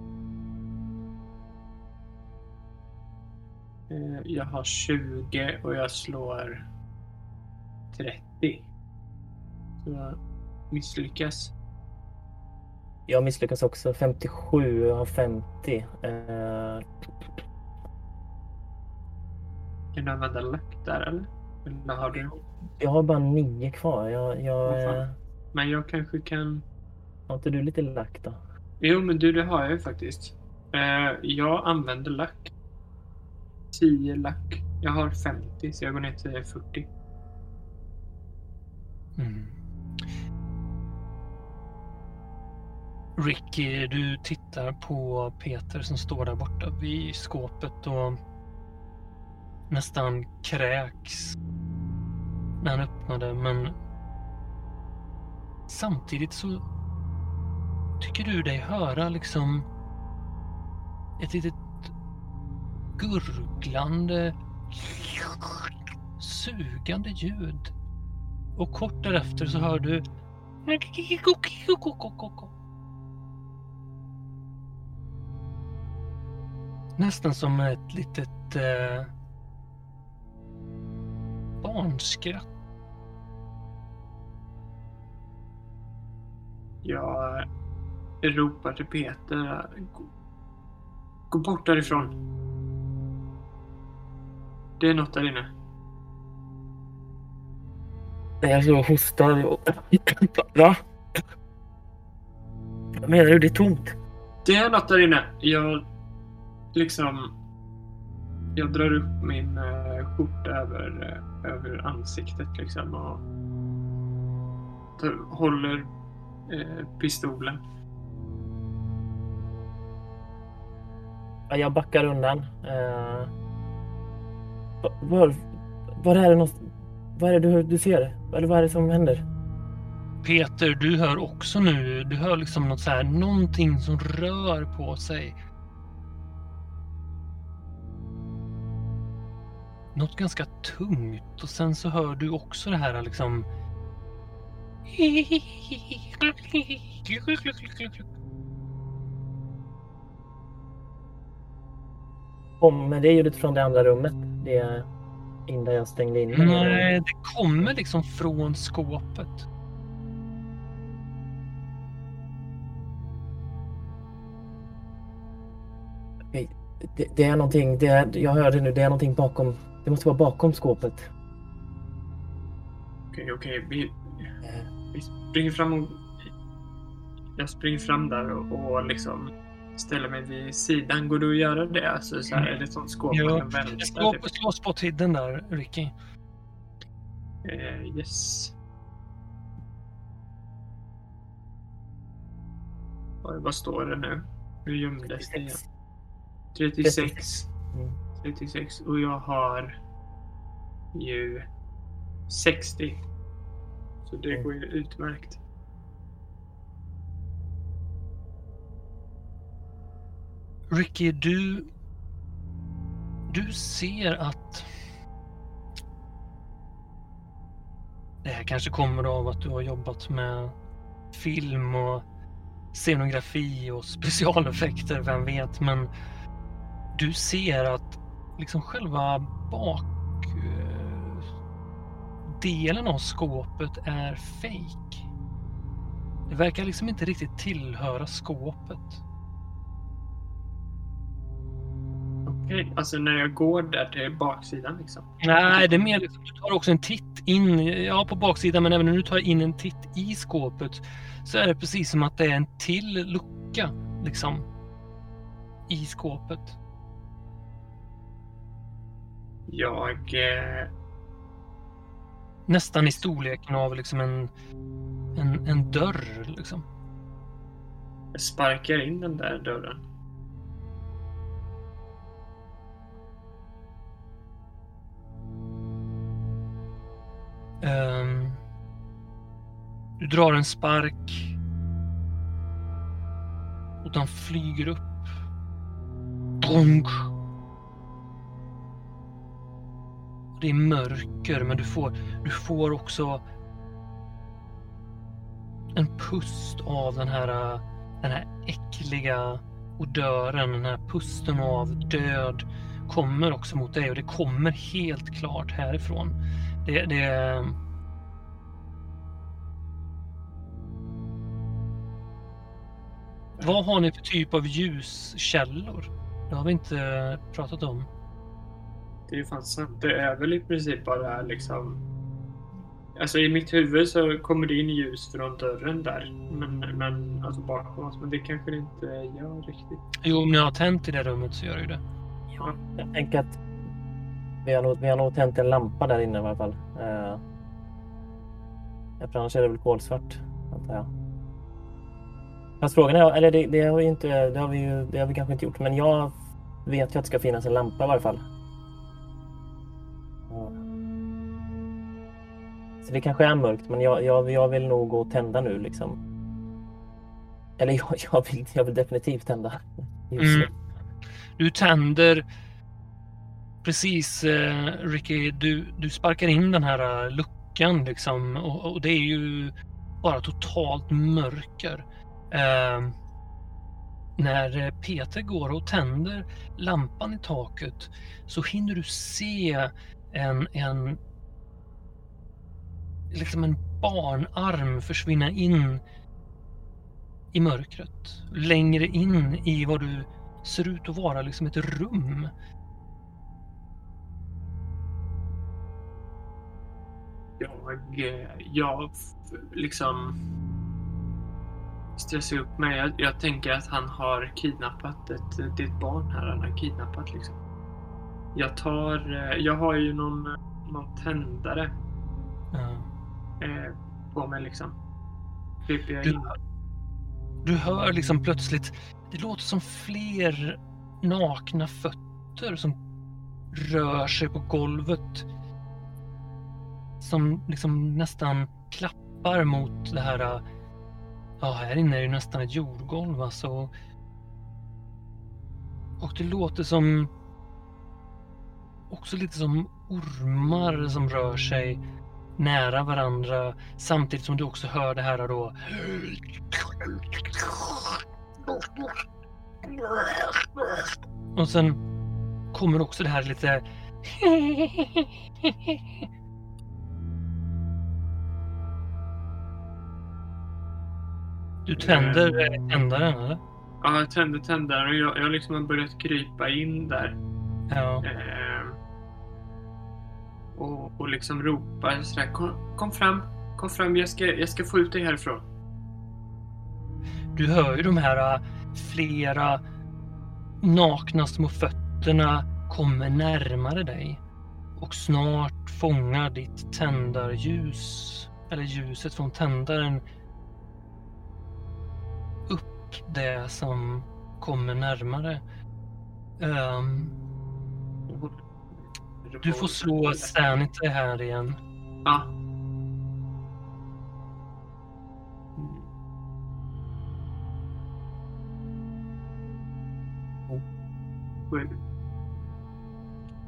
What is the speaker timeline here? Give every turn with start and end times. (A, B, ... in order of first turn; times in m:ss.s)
0:03.9-0:06.7 A
0:07.9-0:08.7 A
0:09.8-0:10.2 A
0:10.7-0:11.5 A
0:13.1-0:16.9 B
0:19.9-0:22.4 A
0:22.1-0:25.1 B
0:24.6-0:26.6 A
0:27.3-0:28.4 B
0:28.8-0:32.5 A
0:33.7-0:36.9 A
0:39.2-0:40.0 C
0:43.2-0:48.2 C
0:49.7-0:51.4 C
0:52.6-0:53.8 C
0:55.7-0:56.6 C
0:58.0-0:59.7 C
1:01.2-1:01.9 C
1:03.0-1:07.7 C
1:08.6-1:10.0 C
1:10.7-1:12.5 C
1:17.0-1:19.1 C
1:21.6-1:22.5 C
1:26.8-1:27.5 A
1:28.2-1:30.1 A
1:31.3-1:32.1 A
1:34.8-1:35.5 A
1:38.4-1:40.8 B
1:43.0-1:44.0 B
1:44.4-1:45.8 A
1:46.7-1:47.3 A
1:48.6-1:53.2 A
1:55.0-1:55.9 A
1:56.5-1:57.6 A
2:01.5-2:03.3 B
2:04.8-2:05.4 B
2:06.0-2:09.2 B
2:10.2-2:15.4 C
2:19.9-2:23.5 C
2:24.9-2:28.1 C
2:32.6-2:34.9 B
2:35.5-2:36.9 B
2:36.3-2:39.5 C
2:46.3-2:51.1 B
2:53.1-2:54.3 A
2:54.4-2:54.7 B
2:54.9-2:56.2 A
2:57.4-3:04.2 A
3:03.1-3:05.9 C
3:07.4-3:08.6 A
3:13.2-3:15.6 A
3:15.0-3:15.6 B
3:16.6-3:17.5 A
3:16.8-3:18.0 B
3:18.2-3:19.7 A
3:20.9-3:21.5 A
3:22.3-3:23.0 A
3:24.1-3:25.4 A
3:30.7-3:31.7 C
3:33.3-3:34.7 C
3:38.2-3:40.6 C
3:41.1-3:42.0 C
3:42.7-3:45.9 C
3:47.0-3:51.3 C
3:52.3-3:55.0 C
3:56.3-3:59.0 C
4:02.3-4:05.9 A
4:05.2-4:14.5 C
4:15.7-4:16.6 C
4:19.5-4:20.7 A
4:22.5-4:24.3 C
4:25.1-4:26.6 C
4:28.1-4:29.8 A
4:37.6-4:38.4 C
4:40.0-4:41.4 C
4:43.8-4:45.1 C
4:46.4-4:47.1 C
4:50.4-4:53.2 C
4:55.7-5:07.6 C
5:13.4-5:17.9 C
5:19.1-5:21.8 A
5:23.0-5:29.8 A
5:30.0-5:31.8 C
5:32.3-5:33.4 B
5:34.4-5:37.2 B
5:39.0-5:40.9 B
5:42.6-5:48.2 B
5:50.3-5:50.6 B
5:52.8-5:56.0 B
5:57.6-6:00.5 B
6:00.2-6:00.5 C
6:01.4-6:02.3 C
6:03.6-6:13.0 C
6:14.2-6:21.0 C
6:23.1-6:25.8 C
6:27.3-6:32.3 C
6:37.4-6:40.2 A
6:42.0-6:47.4 A
6:48.4-6:51.8 A
6:52.5-6:52.9 C
6:53.4-6:54.8 A
6:55.7-6:56.4 A
6:56.0-6:56.3 C
6:57.4-7:02.8 C
7:03.5-7:05.3 C
7:07.0-7:10.4 C
7:11.4-7:13.7 C
7:16.0-7:17.1 C
7:18.9-7:21.8 C
7:22.4-7:29.0 C
7:29.6-7:31.8 C
7:32.5-7:36.0 C
7:41.6-7:43.4 C
7:41.8-7:42.6 A
7:43.8-7:47.2 A
7:47.7-7:48.0 C
7:48.0-7:48.8 A
7:50.6-7:55.4 A
7:57.4-7:59.6 C
8:00.6-8:04.2 C
8:04.8-8:10.0 C
8:12.5-8:15.4 C
8:16.4-8:17.1 C
8:18.1-8:20.4 A
8:19.4-8:21.6 C
8:22.0-8:22.3 A
8:25.6-8:25.9 A
8:31.5-8:31.8 A